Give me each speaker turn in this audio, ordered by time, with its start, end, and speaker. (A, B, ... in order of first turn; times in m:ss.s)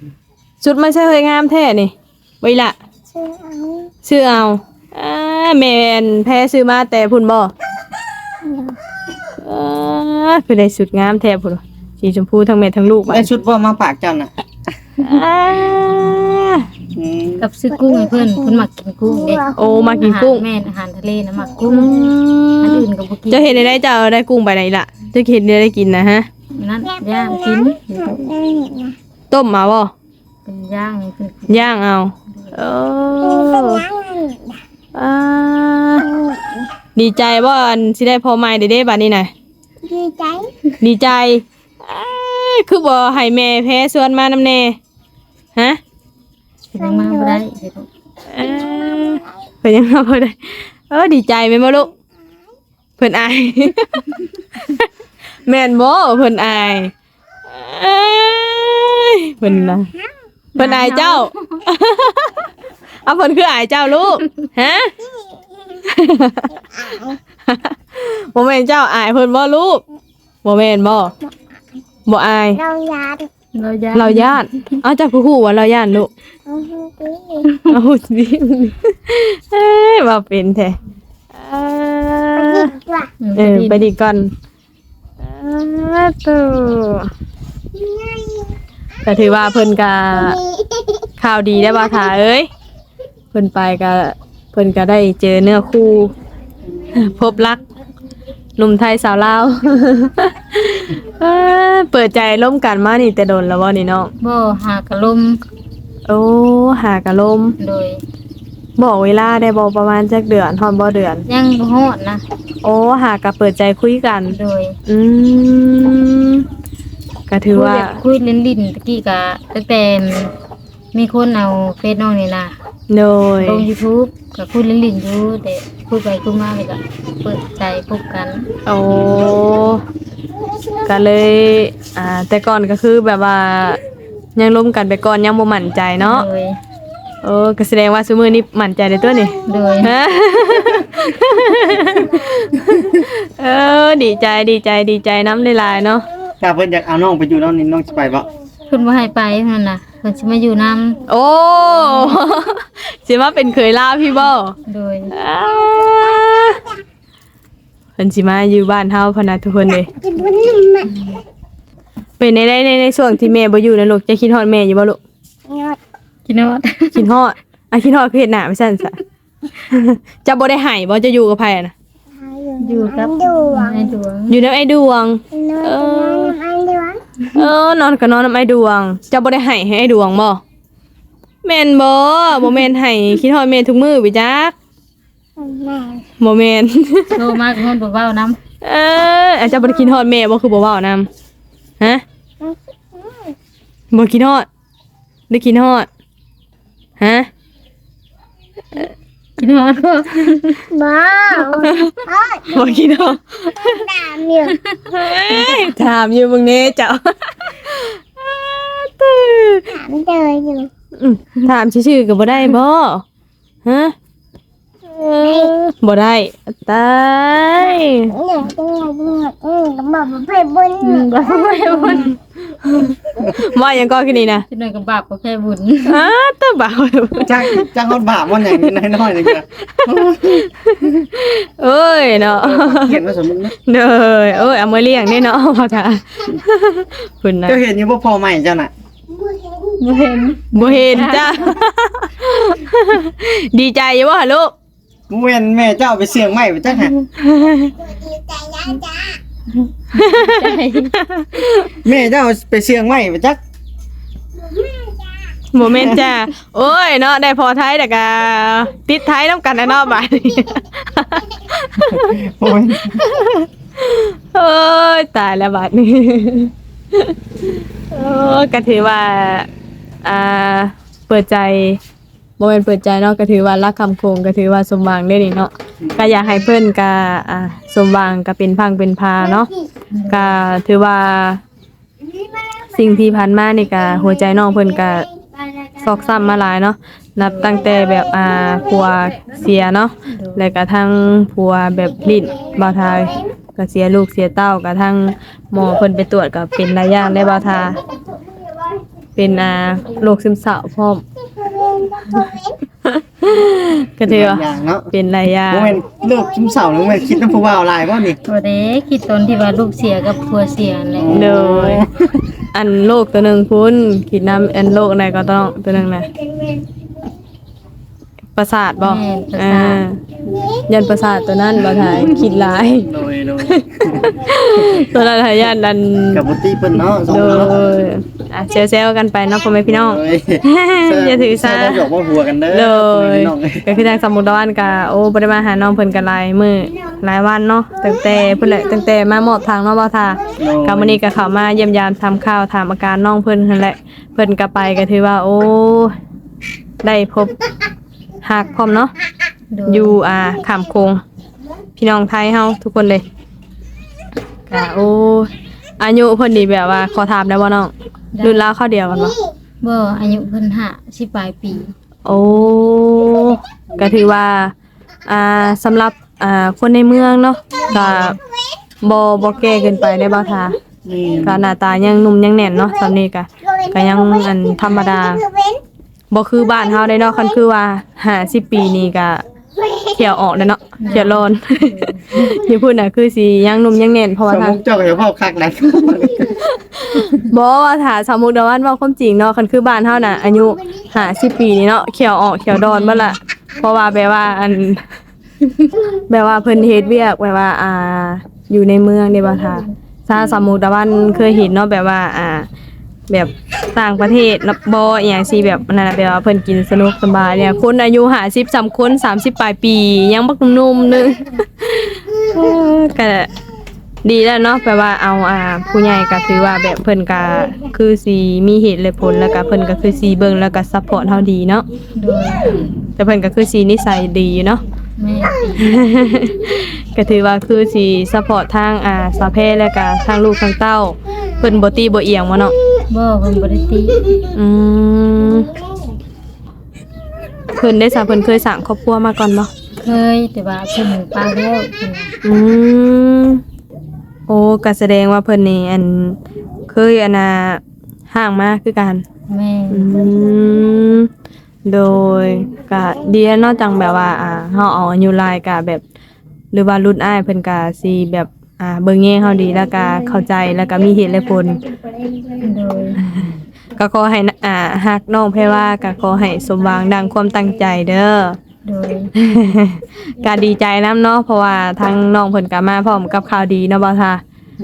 0:00.6-0:02.8 A
0:03.1-0:03.9 B
0:04.0-0:07.5 A
0:08.4-0:08.7 B
0:09.4-0:13.3 A
0:13.1-0:14.3 C
0:15.0-0:16.7 A
0:16.9-0:17.4 C
0:17.4-0:23.5 D
0:19.6-0:20.4 A
0:21.7-0:26.3 A
0:26.6-0:28.3 D
0:28.3-0:28.9 B
0:29.3-0:29.9 A
0:30.4-0:31.7 D
0:31.5-0:33.8 A
0:33.4-0:34.4 B
0:34.9-0:36.1 A
0:36.2-0:36.4 B
0:37.0-0:39.3 A
0:39.8-0:40.5 B
0:40.8-0:44.8 A
0:46.7-0:47.9 D
0:48.3-0:51.9 A
0:53.0-0:54.9 A
0:55.4-0:56.9 A
0:57.5-0:59.9 A
1:00.6-1:01.6 D
1:00.6-1:02.5 A
1:03.0-1:04.9 A
1:05.8-1:06.5 A
1:07.4-1:09.8 A
1:10.4-1:11.1 A
1:12.1-1:12.6 A
1:12.6-1:13.3 B
1:13.6-1:14.8 D
1:13.9-1:16.1 A
1:16.5-1:17.4 B
1:17.7-1:20.8 A
1:21.3-1:22.8 A
1:22.7-1:23.0 B
1:23.2-1:23.8 D
1:23.4-1:24.3 A
1:25.2-1:27.1 A
1:29.0-1:30.4 A
1:31.2-1:32.5 A
1:33.3-1:36.1 A
1:36.9-1:37.6 A
1:38.6-1:44.1 A
1:44.2-1:45.4 D
1:46.1-1:47.5 A
1:47.6-1:48.0 D
1:48.8-1:51.2 A
1:51.3-1:52.2 D
1:52.6-1:54.4 A
1:54.3-1:54.8 D
1:54.9-1:56.4 A
1:57.3-1:58.0 A
1:57.5-2:00.3 D
2:00.9-2:02.5 D
2:02.9-2:03.7 A
2:03.4-2:08.4 D
2:08.6-2:09.8 A
2:10.8-2:13.8 A
2:14.4-2:16.2 A
2:16.0-2:16.6 D
2:17.2-2:26.0 A
2:19.5-2:19.9 D
2:26.4-2:28.3 C
2:28.7-2:31.0 D
2:31.1-2:34.6 A
2:34.7-2:35.1 D
2:35.1-2:36.6 A
2:38.0-2:39.9 A
2:40.1-2:40.9 B
2:40.8-2:41.2 D
2:42.2-2:45.0 A
2:45.5-2:45.8 B
2:46.2-2:47.0 D
2:46.9-2:49.0 A
2:49.6-2:51.7 A
2:52.2-2:53.8 B
2:52.6-2:54.4 D
2:54.3-2:56.4 A
2:55.4-2:57.0 B
2:57.3-3:00.4 A
3:01.4-3:04.5 A
3:05.4-3:06.0 B
3:06.2-3:07.2 A
3:07.1-3:08.4 D
3:08.6-3:11.1 A
3:13.9-3:14.4 A
3:15.3-3:15.9 A
3:17.0-3:17.3 A
3:19.4-3:20.6 D
3:20.7-3:22.7 B
3:21.7-3:21.9 A
3:22.5-3:23.9 A
3:23.7-3:24.5 B
3:24.5-3:24.8 D
3:24.9-3:29.8 A
3:25.3-3:25.6 D
3:29.8-3:30.7 B
3:31.0-3:33.0 A
3:33.6-3:33.9 A
3:34.9-3:38.2 A
3:38.2-3:41.0 B
3:40.8-3:42.2 D
3:42.6-3:44.4 A
3:44.5-3:46.0 D
3:45.9-3:47.7 A
3:47.2-3:50.4 C
3:48.4-3:53.0 A
3:52.4-3:53.5 C
3:53.6-3:57.6 A
3:57.4-3:58.7 C
3:59.8-4:01.4 D
4:00.5-4:04.5 A
4:05.1-4:06.9 C
4:07.2-4:07.7 A
4:07.9-4:09.2 B
4:09.8-4:10.9 D
4:10.0-4:10.4 A
4:10.9-4:11.8 A
4:11.8-4:13.4 C
4:14.6-4:15.0 B
4:15.5-4:22.2 A
4:15.7-4:16.1 C
4:21.9-4:23.0 C
4:22.7-4:29.5 A
4:30.0-4:31.8 A
4:32.4-4:39.5 A
4:39.9-4:40.4 D
4:40.1-4:41.4 A
4:42.7-4:45.1 A
4:45.8-4:57.8 A
4:47.2-4:47.6 D
4:50.1-4:50.5 D
4:59.2-5:01.0 A
5:01.4-5:02.3 B
5:02.8-5:05.8 A
5:04.0-5:04.9 C
5:05.5-5:08.2 C
5:08.2-5:11.2 D
5:11.0-5:12.3 C
5:11.1-5:11.8 A
5:12.5-5:16.1 A
5:18.3-5:20.0 A
5:18.8-5:19.8 D
5:20.7-5:22.9 A
5:21.8-5:24.8 C
5:23.5-5:26.2 A
5:26.1-5:27.5 C
5:26.8-5:31.9 A
5:29.9-5:33.6 C
5:32.5-5:46.0 A
5:40.4-5:41.0 C
5:46.8-5:47.3 A
5:48.2-5:48.9 A
5:49.5-5:50.0 D
5:49.6-5:51.0 A
5:51.8-5:53.0 A
5:54.5-5:59.2 A
5:58.2-5:58.5 D
5:59.6-6:01.7 D
6:02.0-6:04.5 A
6:05.1-6:08.2 A
6:07.7-6:08.2 D
6:08.8-6:10.6 A
6:10.8-6:11.4 C
6:11.2-6:15.3 A
6:16.1-6:19.2 A
6:19.8-6:24.6 A
6:20.8-6:22.3 D
6:24.3-6:26.3 C
6:26.4-6:34.8 A
6:32.6-6:33.2 D
6:36.1-6:42.5 A
6:43.1-6:53.3 A
6:54.0-7:01.6 A
7:02.0-7:02.6 D
7:03.0-7:04.6 A
7:05.0-7:05.8 D
7:05.6-7:12.5 A
7:12.9-7:14.2 D
7:14.3-7:15.5 A
7:17.5-7:19.5 A
7:19.8-7:22.1 D
7:22.2-7:23.4 A
7:24.3-7:29.0 A
7:29.3-7:29.9 D
7:29.7-7:31.1 A
7:31.6-7:35.8 A
7:36.5-7:41.6 A
7:42.4-7:43.0 D
7:43.0-7:48.4 A
7:48.6-7:49.1 D
7:49.2-7:54.2 A